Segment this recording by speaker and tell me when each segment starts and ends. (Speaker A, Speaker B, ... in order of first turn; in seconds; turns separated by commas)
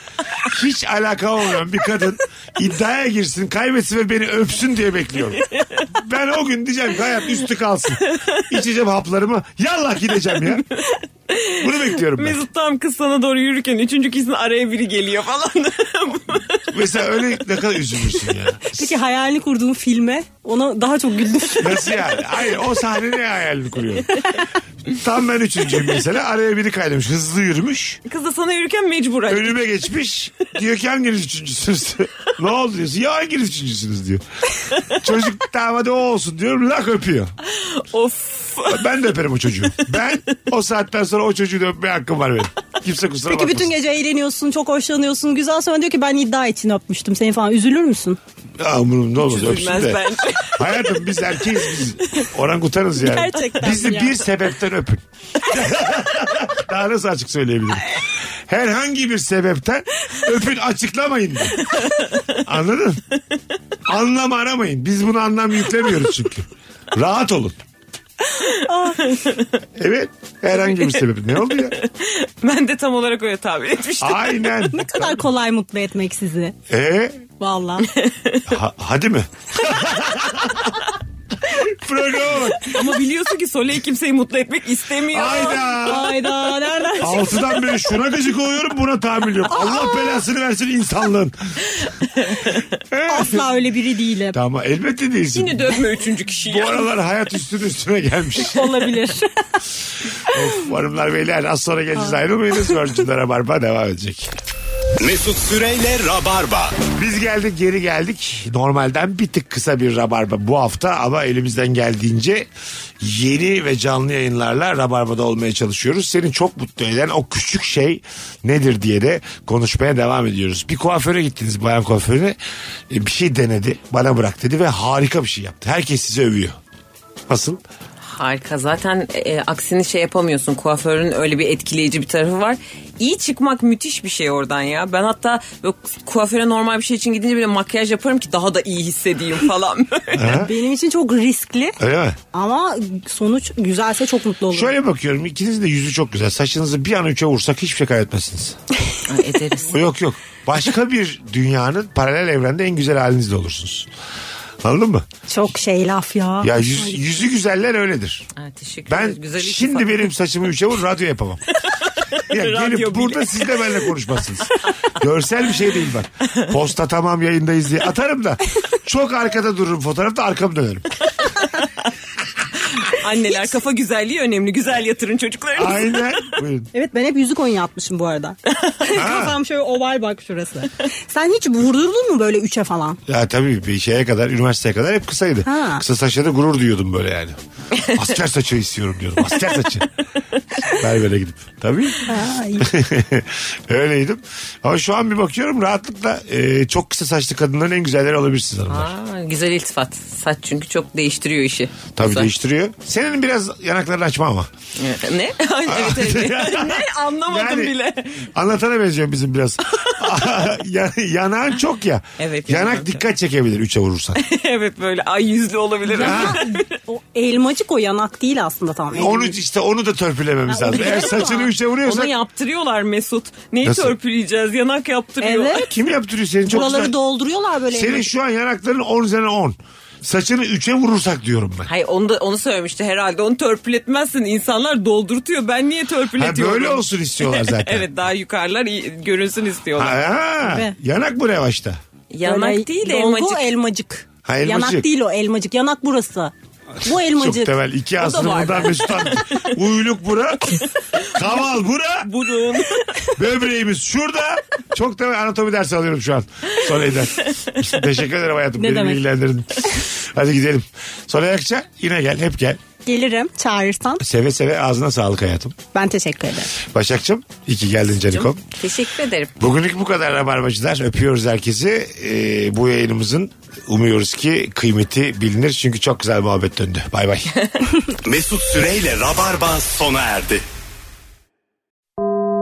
Speaker A: 0.4-10.6, Speaker B: 5.4-5.8, Speaker B: 8.1-8.4, Speaker B: 10.5-16.7, Speaker A: 11.6-12.4, Speaker A: 16.7-18.9, Speaker C: 18.7-22.1, Speaker A: 21.6-24.3, Speaker A: 24.9-28.0, Speaker B: 28.1-29.7, Speaker A: 29.3-34.2, Speaker A: 34.8-37.3, Speaker B: 37.4-38.8, Speaker A: 38.7-43.7, Speaker C: 43.3-48.2, Speaker A: 48.6-50.0, Speaker B: 49.2-50.9, Speaker A: 50.5-61.6, Speaker C: 53.0-54.2, Speaker B: 61.6-62.3, Speaker A: 62.4-63.0, Speaker A: 63.9-67.5, Speaker C: 68.4-69.0, Speaker B: 68.9-69.5, Speaker A: 69.8-71.8, Speaker B: 70.5-71.0, Speaker B: 71.6-74.5, Speaker A: 74.0-75.2, Speaker C: 74.7-76.5, Speaker A: 76.7-77.2, Speaker C: 77.4-77.9, Speaker B: 77.8-78.5, Speaker A: 78.5-80.8, Speaker A: 81.4-82.8, Speaker B: 82.6-85.7, Speaker A: 85.1-86.2, Speaker C: 85.6-87.6, Speaker A: 87.0-91.3, Speaker C: 89.5-90.2, Speaker B: 92.2-92.5, Speaker A: 92.9-93.4, Speaker C: 93.1-94.4, Speaker A: 94.3-95.7, Speaker B: 95.3-96.9, Speaker A: 96.4-98.7, Speaker C: 98.4-99.3, Speaker A: 100.3-104.3, Speaker D: 105.0-106.8, Speaker A: 106.9-112.5, Speaker A: 113.0-122.4, Speaker A: 122.9-126.6, Speaker A: 127.3-127.6, Speaker B: 128.0-140.4, Speaker A: 140.1-140.5, Speaker C: 140.3-141.8, Speaker A: 141.8-142.2, Speaker C: 142.3-144.7, Speaker A: 144.5-148.6, Speaker B: 149.1-149.8, Speaker A: 149.7-153.9, Speaker A: 154.6-155.1, Speaker C: 155.3-157.0, Speaker A: 156.4-158.3, Speaker B: 158.3-160.1, Speaker A: 158.9-161.4, Speaker B: 161.7-163.8, Speaker A: 162.3-170.9, Speaker B: 172.7-176.2, Speaker A: 175.6-176.7, Speaker C: 176.7-183.0, Speaker A: 178.9-179.4, Speaker A: 183.1-189.9, Speaker C: 185.4-185.8, Speaker A: 190.7-192.1, Speaker C: 192.1-192.7, Speaker A: 192.6-198.9, Speaker B: 198.7-202.3, Speaker A: 202.0-204.5, Speaker B: 204.8-208.3, Speaker A: 205.7-207.7, Speaker A: 208.3-214.2, Speaker B: 209.7-210.2, Speaker B: 212.2-213.0, Speaker B: 214.2-216.6, Speaker C: 215.9-219.3, Speaker A: 216.0-216.4, Speaker A: 218.9-222.1, Speaker C: 220.5-221.5, Speaker B: 220.8-225.7, Speaker A: 223.6-223.9, Speaker C: 225.2-225.7, Speaker A: 225.6-226.9, Speaker C: 226.5-228.1, Speaker A: 227.7-231.7, Speaker B: 231.7-240.0, Speaker A: 236.2-237.8, Speaker A: 239.8-241.8, Speaker C: 240.4-240.7, Speaker B: 242.1-243.5, Speaker C: 242.2-247.5, Speaker A: 244.2-244.9, Speaker A: 246.8-252.1, Speaker B: 248.0-249.5, Speaker B: 251.0-251.3, Speaker B: 252.0-253.1, Speaker A: 253.1-262.6, Speaker B: 257.2-257.6, Speaker C: 258.6-259.0, Speaker C: 262.8-264.0, Speaker A: 264.0-265.6, Speaker C: 265.7-266.5, Speaker A: 266.5-268.5, Speaker B: 268.1-269.3, Speaker A: 269.4-277.3, Speaker D: 278.0-280.4